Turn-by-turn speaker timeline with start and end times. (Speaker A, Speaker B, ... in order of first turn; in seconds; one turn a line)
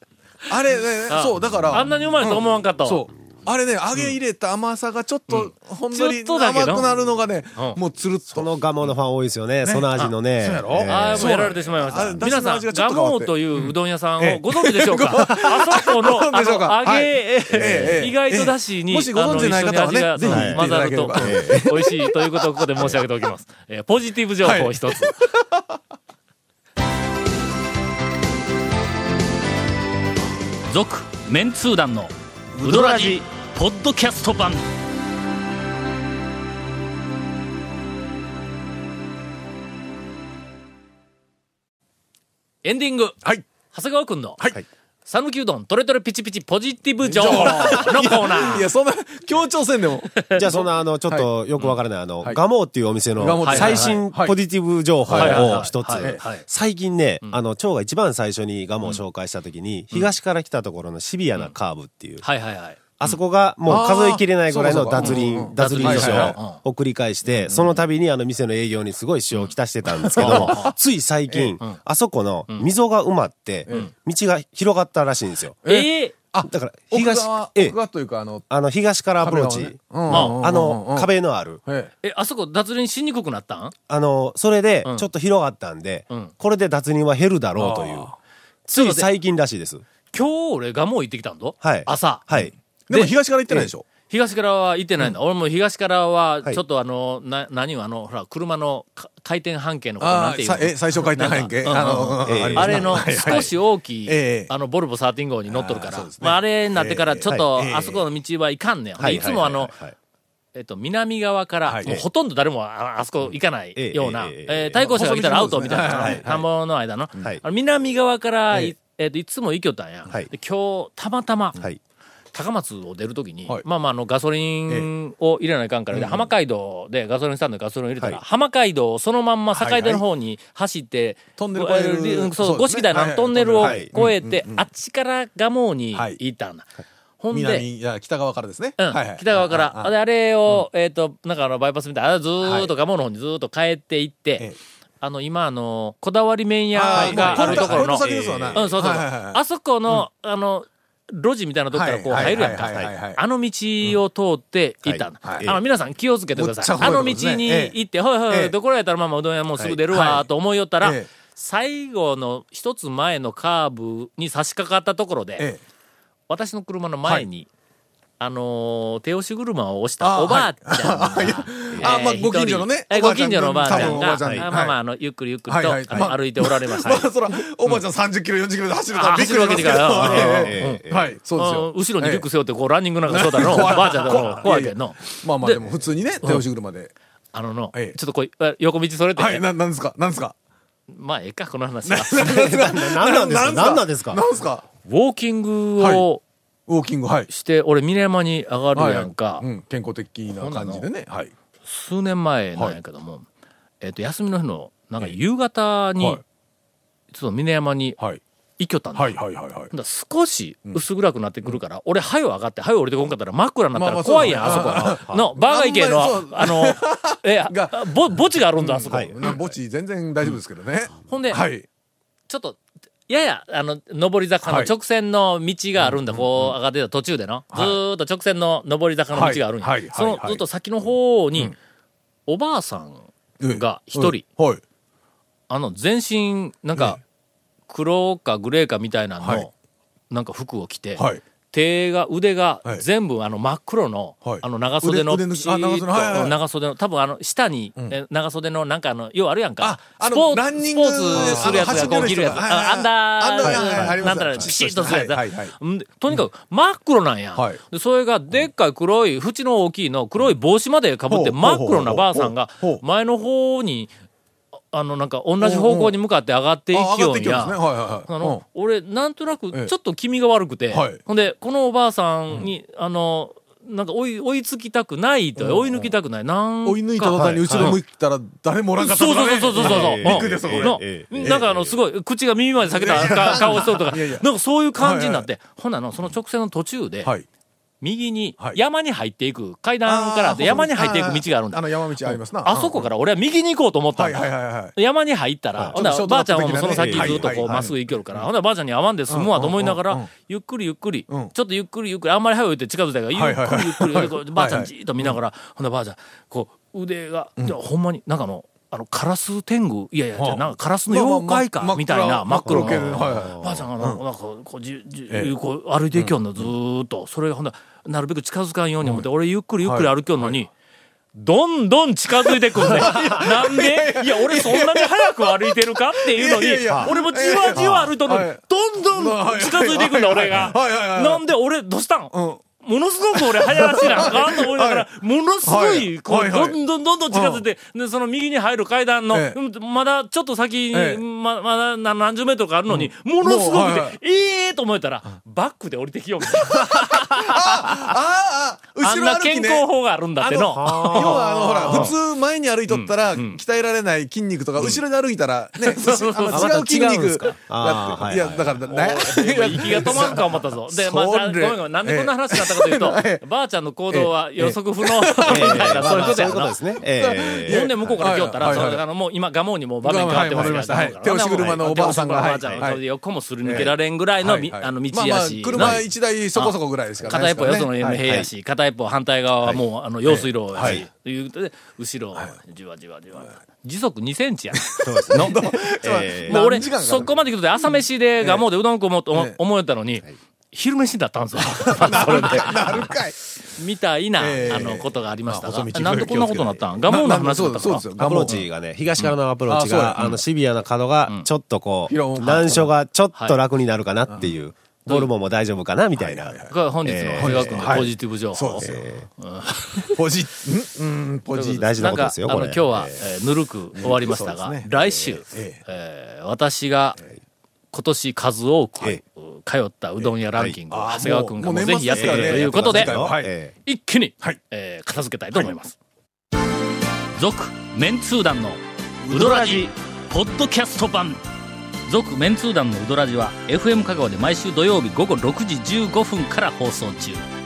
Speaker A: 0.5-8.6
Speaker B: 1.1-3.0
Speaker B: 5.3-6.9
Speaker C: 8.3-11.6
Speaker A: 10.4-22.8
Speaker B: 10.9-25.2
Speaker C: 20.2-21.7
Speaker A: 24.4-25.7
Speaker B: 30.7-34.7
Speaker A: 32.6-33.1
Speaker B: 42.6-44.5
Speaker B: 45.1-48.6
Speaker A: 47.0-51.3
Speaker B: 50.1-50.4
Speaker C: 50.4-62.2
Speaker A: 53.2-54.4
Speaker B: 53.4-54.0
Speaker A: 55.1-56.2
Speaker B: 55.1-56.4
Speaker B: 62.2-63.2
Speaker C: 63.0-75.6
Speaker A: 63.7-66.4
Speaker B: 65.0-66.6
Speaker A: 70.0-70.7
Speaker B: 70.2-70.7
Speaker A: 71.3-71.6
Speaker A: 75.6-78.5
Speaker B: 75.7-76.1
Speaker C: 76.5-77.8
Speaker C: 78.5-81.6
Speaker A: 79.2-81.1
Speaker B: 80.1-80.4
Speaker A: 81.7-81.9
Speaker B: 82.0-83.7
Speaker C: 83.9-88.1
Speaker A: 87.6-88.1
Speaker C: 88.7-89.8
Speaker B: 88.7-89.1
Speaker B: 90.1-92.3
Speaker C: 91.6-92.5
Speaker A: 92.4-93.9
Speaker B: 94.1-109.8
Speaker A: 100.0-103.5
Speaker C: 102.2-103.5
Speaker A: 104.1-104.5
Speaker A: 105.5-108.0
Speaker C: 109.0-110.0
Speaker B: 110.5-121.6
Speaker A: 111.7-112.0
Speaker C: 113.8-114.8
Speaker A: 114.8-116.5
Speaker C: 115.8-116.2
Speaker B: 122.3-137.7
Speaker A: 125.9-126.3
Speaker A: 129.5-130.0
Speaker A: 131.4-134.7
Speaker C: 133.6-133.9
Speaker A: 135.9-136.2
Speaker A: 137.3-139.9
Speaker B: 138.8-165.5
Speaker A: 142.4-142.7
Speaker A: 146.7-150.0
Speaker C: 146.9-148.7
Speaker A: 151.7-153.2
Speaker C: 152.2-152.7
Speaker C: 154.8-155.6
Speaker A: 155.2-155.5
Speaker A: 156.3-157.8
Speaker A: 158.3-158.6
Speaker A: 159.9-160.3
Speaker A: 160.8-161.1
Speaker B: 166.3-167.5
Speaker B: 168.2-177.1
Speaker A: 170.0-174.8
Speaker C: 173.7-174.5
Speaker A: 175.5-182.3
Speaker B: 178.9-185.6
Speaker C: 179.8-181.1
Speaker A: 183.1-186.9
Speaker B: 187.3-189.4
Speaker A: 189.2-190.3
Speaker B: 190.9-192.5
Speaker A: 191.9-194.7
Speaker C: 192.1-194.2
Speaker B: 194.8-196.2
Speaker A: 195.8-196.1
Speaker A: 196.7-197.3
Speaker B: 197.3-199.5
Speaker A: 198.8-201.3
Speaker B: 200.3-200.9
Speaker B: 201.7-203.3
Speaker B: 203.8-206.2
Speaker B: 207.1-208.0
Speaker B: 208.6-209.2
Speaker A: 208.9-209.7
Speaker B: 209.7-219.5
Speaker A: 213.7-221.7
Speaker B: 221.0-221.4
Speaker B: 222.3-231.5
Speaker A: 224.4-224.7
Speaker A: 225.8-226.6
Speaker A: 227.5-227.8
Speaker A: 229.1-230.4
Speaker B: 232.3-234.2
Speaker A: 233.4-234.6
Speaker B: 235.5-237.0
Speaker B: 237.7-239.5
Speaker A: 239.2-239.5
Speaker B: 240.1-263.9
Speaker A: 244.2-246.4
Speaker A: 249.6-255.6
Speaker C: 251.4-252.1
Speaker C: 253.4-254.5
Speaker A: 257.4-257.6
Speaker A: 261.1-262.8
Speaker B: 264.7-277.8
Speaker A: 265.4-265.9
Speaker A: 266.7-268.4
Speaker A: 270.7-271.0
Speaker A: 275.4-275.9
Speaker A: 276.6-281.5
Speaker B: 278.8-287.1
Speaker C: 279.6-281.7
Speaker A: 282.7-285.3
Speaker B: 287.8-320.5
Speaker A: 289.9-292.9
Speaker A: 294.0-294.7
Speaker A: 295.7-298.3
Speaker C: 296.7-297.5
Speaker A: 299.1-300.1
Speaker A: 303.1-305.2
Speaker A: 310.2-314.0
Speaker C: 312.5-313.6
Speaker A: 315.9-316.5
Speaker A: 319.6-320.3
Speaker B: 321.1-347.6
Speaker A: 322.3-328.4
Speaker C: 326.7-326.9
Speaker C: 327.5-327.9
Speaker A: 328.9-331.2
Speaker A: 332.1-332.4
Speaker A: 333.1-334.9
Speaker A: 335.4-336.6
Speaker A: 337.1-337.4
Speaker A: 339.1-339.4
Speaker A: 340.7-341.0
Speaker A: 342.7-344.0
Speaker A: 346.3-349.7
Speaker B: 348.8-351.9
Speaker A: 350.2-363.2
Speaker C: 350.6-351.9
Speaker B: 352.7-353.4
Speaker B: 355.6-356.9
Speaker C: 356.3-358.6
Speaker B: 358.6-366.6
Speaker A: 363.9-368.8
Speaker C: 365.3-368.7
Speaker B: 367.5-385.6
Speaker A: 369.8-372.8
Speaker A: 373.4-378.0
Speaker C: 378.0-378.3
Speaker A: 380.1-380.8
Speaker C: 380.6-380.9
Speaker A: 384.6-387.1
Speaker C: 384.8-386.6
Speaker B: 386.2-393.0
Speaker A: 389.1-389.4
Speaker A: 391.6-393.2
Speaker B: 393.6-398.4
Speaker A: 394.2-398.4
Speaker C: 398.0-407.9
Speaker A: 399.5-400.2
Speaker A: 401.9-402.7
Speaker A: 404.1-404.3
Speaker A: 406.0-406.6
Speaker B: 406.5-408.7
Speaker A: 407.2-408.9
Speaker C: 408.6-409.1
Speaker B: 409.2-409.9
Speaker A: 409.8-412.0
Speaker B: 411.4-417.0
Speaker C: 411.4-413.0
Speaker A: 413.8-415.6
Speaker B: 417.7-423.1
Speaker A: 420.7-423.3
Speaker C: 421.9-423.5
Speaker B: 423.6-425.8
Speaker B: 427.2-431.2
Speaker A: 429.3-429.5
Speaker B: 431.9-437.2